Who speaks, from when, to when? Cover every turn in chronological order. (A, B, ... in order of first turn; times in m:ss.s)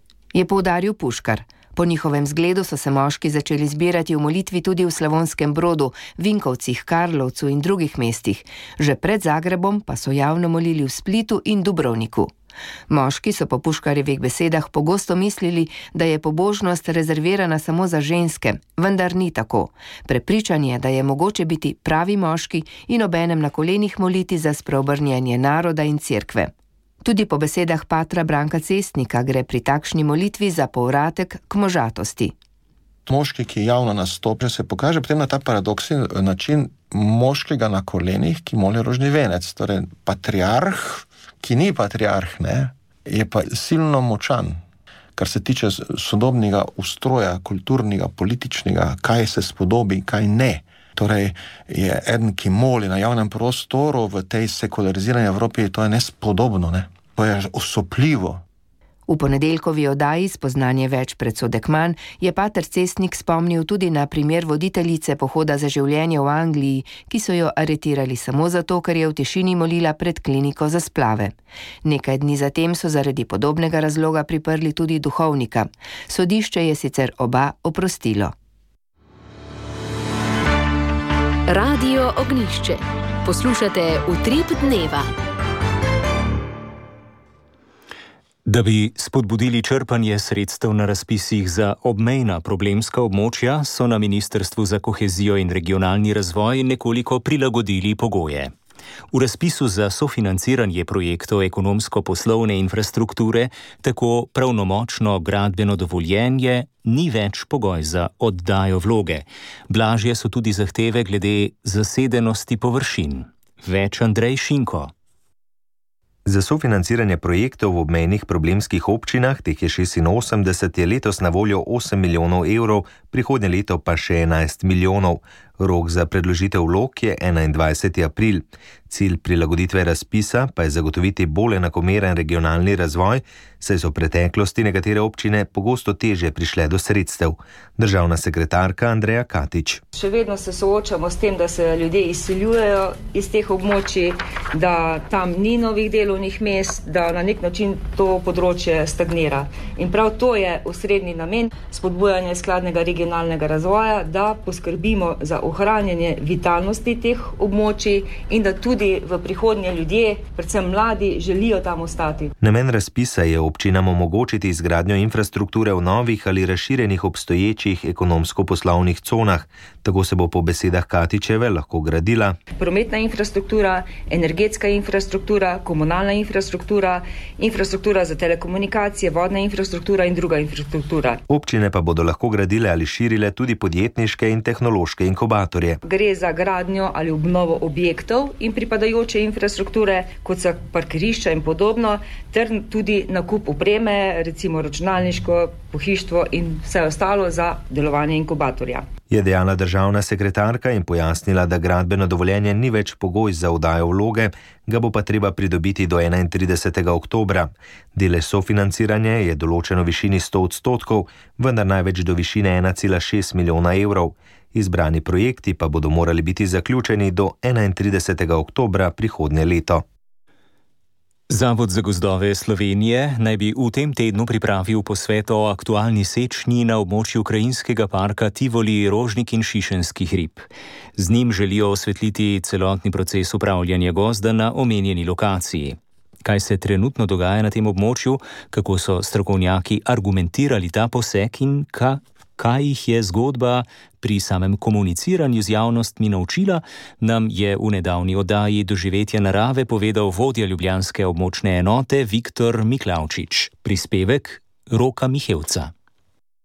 0:00.3-0:12.3 A
0:12.9-0:26.5 A
0:27.0-0:32.3 A
0:33.1-0:44.6 B
0:45.2-0:58.4 B
0:59.1-1:18.3 A
1:21.5-1:25.1 C
1:28.5-1:38.5 D
1:39.1-1:54.9 D
1:56.3-2:19.8 E
2:19.9-2:42.3 F
2:42.4-2:52.4 E
2:52.6-3:01.2 F
3:01.3-3:05.8 E
3:05.8-3:18.9 F
3:19.1-3:39.8 E
3:41.3-4:15.7 D